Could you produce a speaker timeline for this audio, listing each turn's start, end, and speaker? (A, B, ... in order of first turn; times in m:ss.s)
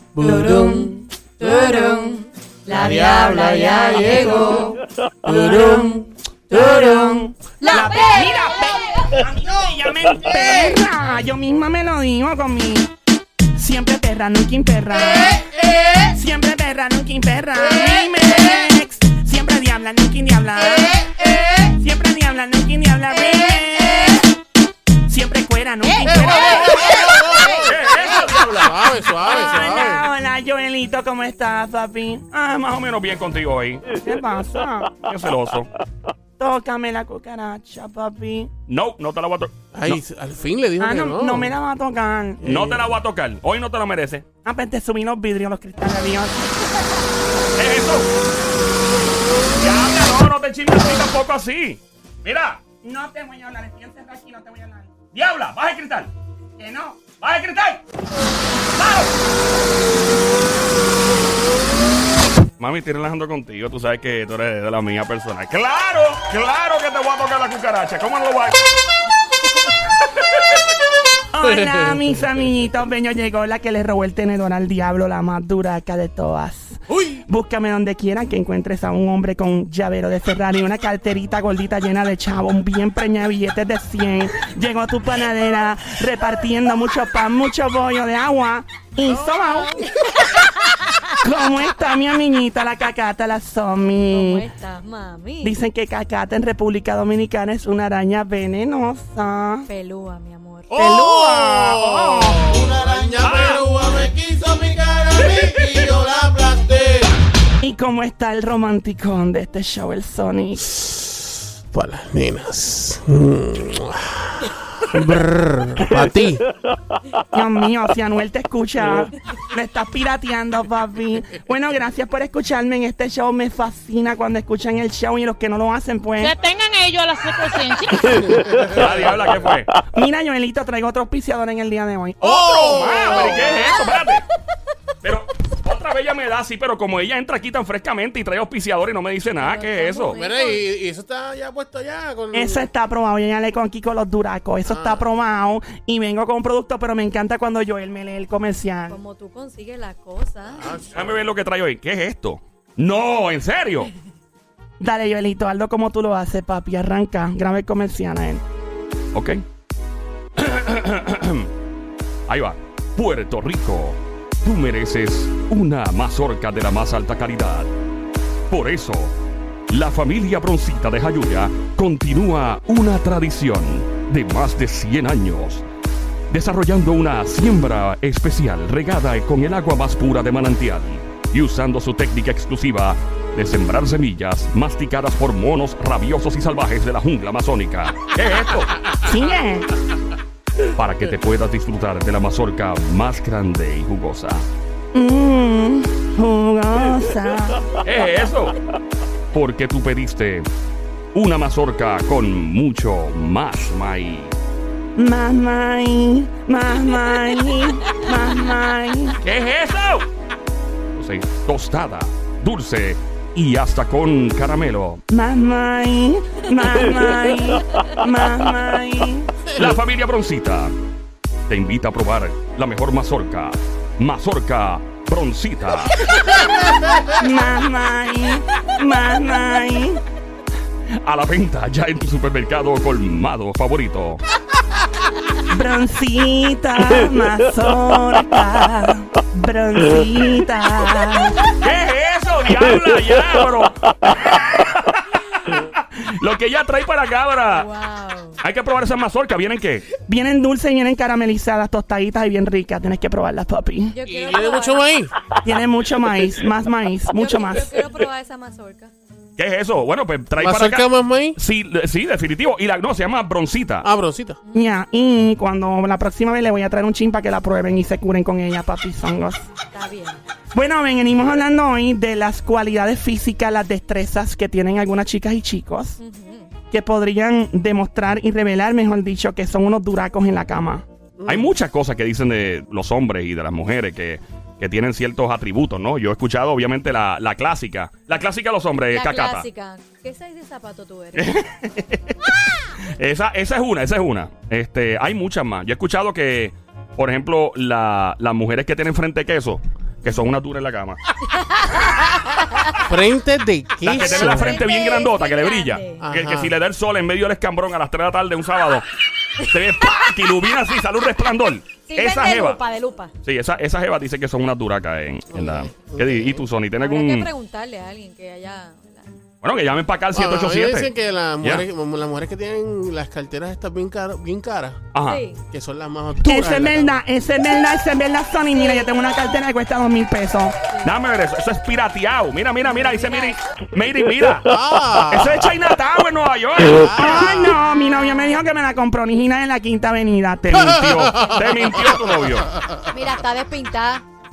0:00.1-0:01.0 A
0:00.2-0:04.8 B
0:02.7-0:06.0 A
0:05.2-0:12.9 C
0:06.5-0:08.4 B
0:13.5-0:21.0 C
0:21.6-0:24.2 C
0:25.0-0:27.7 C
0:26.1-0:30.1 A
0:27.6-0:28.7 D
0:29.3-0:32.6 C
0:32.6-0:34.0 D
0:34.0-0:35.0 C
0:35.0-0:35.7 D
0:36.4-0:38.5 C
0:38.7-0:40.0 D
0:39.7-0:41.6 A
0:40.8-0:42.4 C
0:42.4-0:42.9 A
0:42.4-0:44.2 D
0:44.4-0:47.0 C
0:47.6-0:48.1 D
0:49.6-0:52.6 D
0:52.8-0:55.0 C
0:55.1-0:56.1 D
0:56.6-0:57.2 C
0:57.1-0:57.8 D
0:58.8-0:59.1 D
1:02.6-1:08.6 D
1:11.3-1:29.8 C
1:11.7-1:12.0 A
1:29.0-1:29.6 A
1:30.0-1:30.6 B
1:31.2-1:34.4 C
1:34.1-1:35.6 B
1:35.4-1:39.7 C
1:39.7-1:40.8 B
1:40.7-1:47.1 A
1:40.7-1:42.6 C
1:43.2-1:43.7 D
1:47.6-1:50.8 C
1:51.7-1:56.4 A
1:57.3-2:06.4 C
2:06.2-2:08.6 E
2:08.6-2:09.7 D
2:09.9-2:12.6 C
2:12.2-2:13.7 A
2:12.4-2:14.2 D
2:15.0-2:20.2 D
2:19.4-2:20.6 B
2:20.1-2:22.7 A
2:22.3-2:29.0 C
2:24.6-2:25.0 A
2:28.9-2:30.8 B
2:30.5-2:31.3 A
2:30.9-2:33.9 D
2:34.8-2:38.4 C
2:39.1-2:39.4 D
2:40.4-2:41.5 D
2:42.3-2:47.7 D
2:48.5-2:49.1 D
2:49.7-2:55.6 D
2:56.3-3:09.0 D
3:09.0-3:09.7 C
3:10.7-3:14.5 D
3:14.9-3:17.7 C
3:17.8-3:18.6 D
3:19.3-3:20.5 D
3:21.1-3:24.3 D
3:25.0-3:29.2 C
3:29.2-3:30.1 D
3:30.9-3:35.0 D
3:35.1-3:39.3 C
3:39.6-3:40.7 D
3:41.5-3:46.1 D
3:47.1-3:50.0 C
3:51.0-3:54.2 D
3:55.5-4:01.4 C
4:01.5-4:07.7 D
4:07.5-4:08.4 B
4:08.4-4:09.9 D
4:10.1-4:13.9 C
4:13.9-4:14.9 B
4:14.1-4:15.1 A
4:15.4-4:17.7 C
4:17.1-4:18.9 B
4:19.4-4:23.9 D
4:20.4-4:21.4 A
4:23.8-4:24.4 A
4:24.5-4:24.8 B
4:24.5-4:29.4 C
4:29.7-4:30.2 B
4:30.5-4:36.0 C
4:36.0-4:36.5 B
4:36.7-4:40.8 C
4:41.2-4:41.5 A
4:41.3-4:49.4 D
4:48.9-4:51.4 B
4:51.1-4:52.3 D
4:53.0-5:01.0 D
5:01.4-5:02.7 B
5:02.9-5:04.6 A
5:03.8-5:08.8 D
5:03.9-5:06.0 B
5:06.0-5:06.5 A
5:09.4-5:12.6 D
5:11.8-5:13.1 B
5:13.2-5:17.3 D
5:15.3-5:16.4 A
5:16.8-5:19.2 B
5:19.4-5:20.9 D
5:20.1-5:24.8 A
5:24.9-5:25.2 D
5:25.0-5:25.4 B
5:25.5-5:27.0 A
5:26.2-5:30.5 C
5:28.6-5:28.8 B
5:30.8-5:34.5 D
5:32.6-5:33.4 B
5:34.4-5:35.5 A
5:35.1-5:37.3 D
5:36.9-5:40.9 C
5:38.0-5:38.3 B
5:40.5-5:41.4 A
5:40.6-5:42.5 D
5:41.3-5:41.6 B
5:42.8-5:44.0 B